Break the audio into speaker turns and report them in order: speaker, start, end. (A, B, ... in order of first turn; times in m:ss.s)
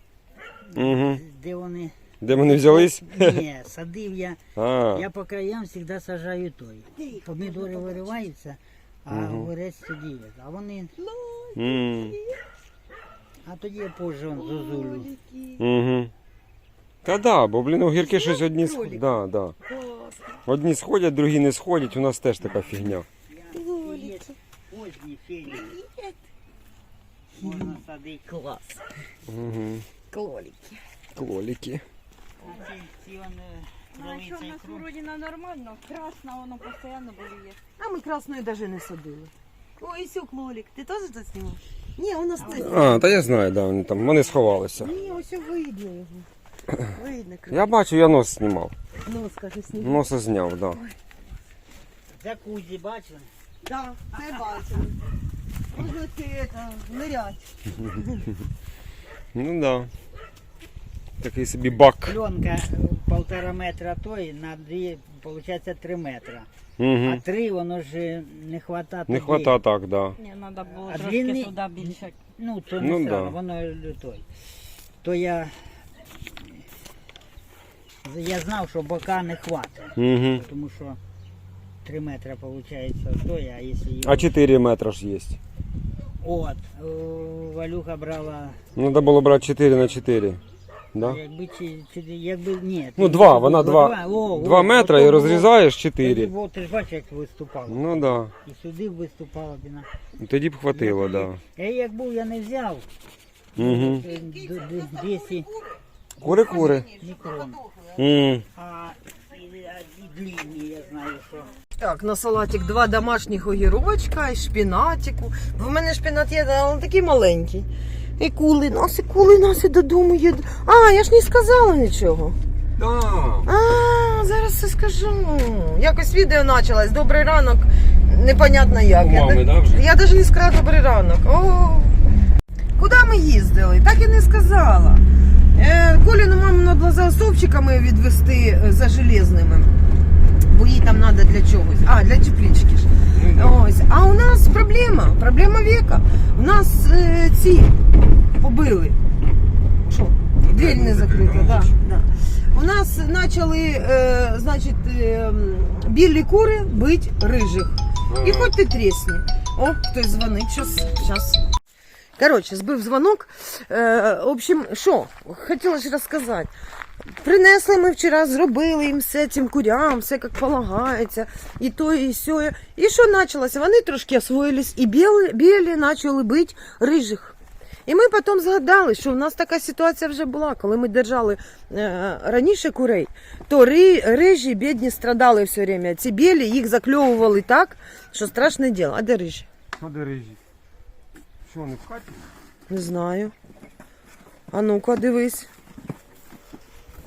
0:00.7-0:10.9 A
0:00.7-0:01.2 B
0:02.2-0:03.4 B
0:04.6-0:05.0 B
0:07.0-0:08.1 C
0:09.1-0:09.5 B
0:11.0-0:12.4 C
0:11.6-0:12.1 B
0:13.4-0:15.1 A
0:14.3-0:15.6 C
0:15.6-0:16.1 B
0:17.0-0:19.5 B
0:18.0-0:19.1 C
0:19.6-0:20.4 C
0:20.4-0:23.0 B
0:22.4-0:25.7 A
0:23.5-0:24.3 C
0:25.5-0:26.2 C
0:27.3-0:28.4 A
0:27.4-0:27.7 C
0:28.3-0:28.8 C
0:29.3-0:29.8 B
0:30.1-0:30.8 C
0:31.2-0:31.8 B
0:32.4-0:34.8 A
0:33.9-0:37.6 D
0:37.8-0:43.3 C
0:42.4-0:43.2 A
0:42.4-0:44.9 B
0:44.8-0:46.2 C
0:46.9-0:47.7 C
0:47.5-0:48.7 B
0:49.0-0:50.0 C
0:49.8-0:50.8 B
0:52.1-0:53.3 A
0:53.6-0:55.0 C
0:55.7-0:58.2 C
0:59.3-0:59.9 B
1:01.2-1:02.2 B
1:01.6-1:06.5 A
1:06.8-1:07.2 B
1:07.0-1:09.6 A
1:09.1-1:10.2 B
1:10.2-1:12.2 D
1:10.7-1:14.3 A
1:12.8-1:13.3 B
1:15.0-1:15.7 A
1:18.0-1:21.0 A
1:20.0-1:20.4 B
1:21.8-1:24.3 A
1:24.0-1:25.4 B
1:26.2-1:28.6 A
1:28.8-1:30.4 B
1:30.9-1:31.2 B
1:31.0-1:39.9 A
1:33.0-1:36.3 B
1:37.7-1:38.3 B
1:40.2-1:41.4 B
1:40.7-1:42.9 A
1:43.6-1:44.0 B
1:43.6-1:45.5 A
1:43.6-1:48.3 C
1:46.2-1:46.9 B
1:46.2-1:47.6 A
1:48.0-1:48.4 B
1:48.5-1:51.5 A
1:51.8-2:02.4 C
2:02.8-2:03.5 B
2:03.4-2:12.1 C
2:08.9-2:09.8 B
2:12.8-2:15.0 C
2:15.5-2:19.8 C
2:20.5-2:27.8 C
2:23.1-2:23.6 B
2:28.4-2:29.0 C
2:29.8-2:41.4 C
2:30.4-2:31.7 B
2:38.1-2:38.5 B
2:42.2-2:46.5 C
2:47.0-3:09.5 C
3:09.8-3:10.4 B
3:11.4-3:12.3 B
3:12.7-3:13.3 C
3:14.5-3:15.5 C